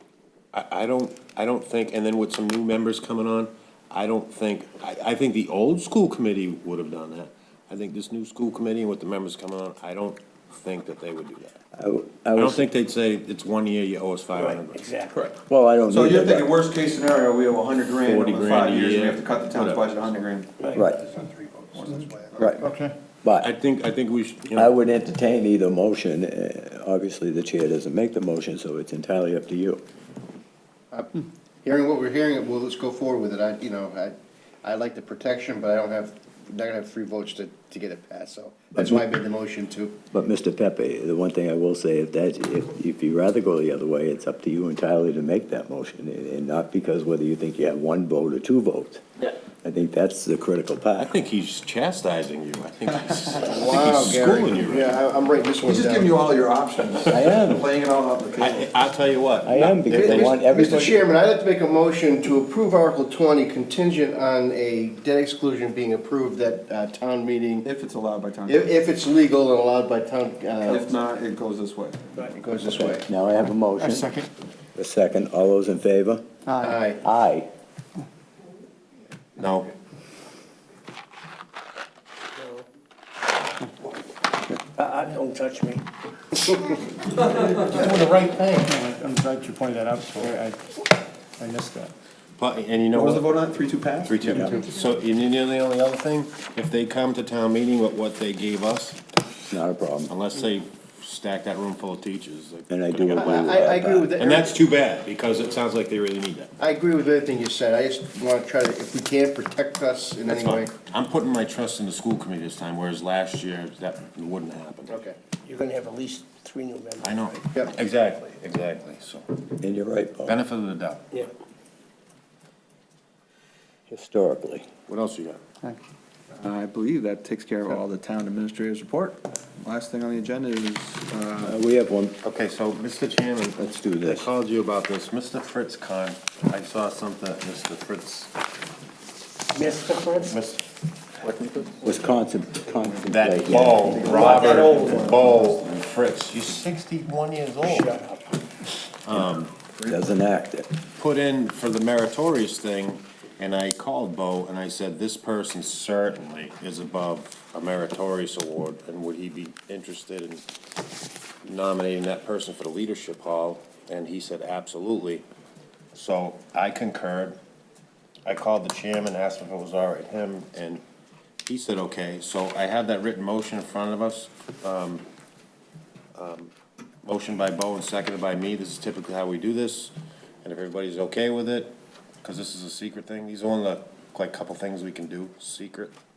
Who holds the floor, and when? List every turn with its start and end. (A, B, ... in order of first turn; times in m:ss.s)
0:00.5-0:11.5 A
0:11.8-0:12.6 B
0:12.3-0:14.8 A
0:14.4-0:15.3 C
0:15.5-0:16.5 B
0:15.8-0:20.7 D
0:18.0-0:20.0 A
0:20.8-0:22.8 E
0:21.8-0:22.0 D
0:22.4-0:22.6 B
0:22.6-0:22.9 F
0:23.2-0:23.5 B
0:23.4-0:24.7 A
0:24.5-0:29.8 B
0:30.9-0:40.0 E
0:40.1-0:49.0 B
0:49.6-0:51.2 B
0:51.0-0:55.0 A
0:53.4-0:56.2 E
0:55.6-0:58.7 D
0:57.1-0:57.6 B
0:58.4-1:00.3 A
0:59.4-1:01.0 B
0:59.9-1:00.9 D
0:59.9-1:07.7 E
1:07.6-1:08.6 D
1:08.5-1:10.8 E
1:10.6-1:12.1 D
1:12.3-1:13.1 E
1:12.7-1:14.1 B
1:13.8-1:14.3 F
1:14.8-1:16.3 B
1:16.6-1:17.0 E
1:17.0-1:17.5 B
1:19.4-1:19.7 A
1:22.4-1:22.6 C
1:24.8-1:26.8 C
1:27.5-1:28.7 A
1:28.6-1:30.7 F
1:31.4-1:31.9 F
1:32.4-1:33.3 A
1:32.9-1:34.5 D
1:34.0-1:39.0 A
1:39.5-1:40.1 B
1:40.1-1:46.5 A
1:42.7-1:44.2 B
1:43.1-1:44.6 E
1:46.6-1:50.7 E
1:50.3-1:55.0 A
1:54.9-1:55.2 E
1:55.4-1:57.3 C
1:57.0-1:59.3 A
1:59.6-2:00.4 B
2:00.3-2:01.3 A
2:03.9-2:04.7 B
2:04.9-2:05.4 A
2:06.3-2:11.6 D
2:11.4-2:12.2 B
2:12.2-2:18.3 A
2:13.6-2:14.3 B
2:19.5-2:20.4 C
2:20.3-2:20.6 A
2:21.2-2:21.6 D
2:21.8-2:25.1 B
2:23.1-2:28.0 A
2:23.8-2:25.6 D
2:27.6-2:28.3 C
2:29.0-2:29.5 A
2:29.8-2:30.7 B
2:31.0-2:40.4 A
2:41.4-2:45.2 A
2:45.9-2:47.4 A
2:48.2-2:50.8 A
2:51.5-2:55.0 A
2:56.2-2:56.5 A
2:57.0-3:01.7 A
3:02.2-3:05.9 A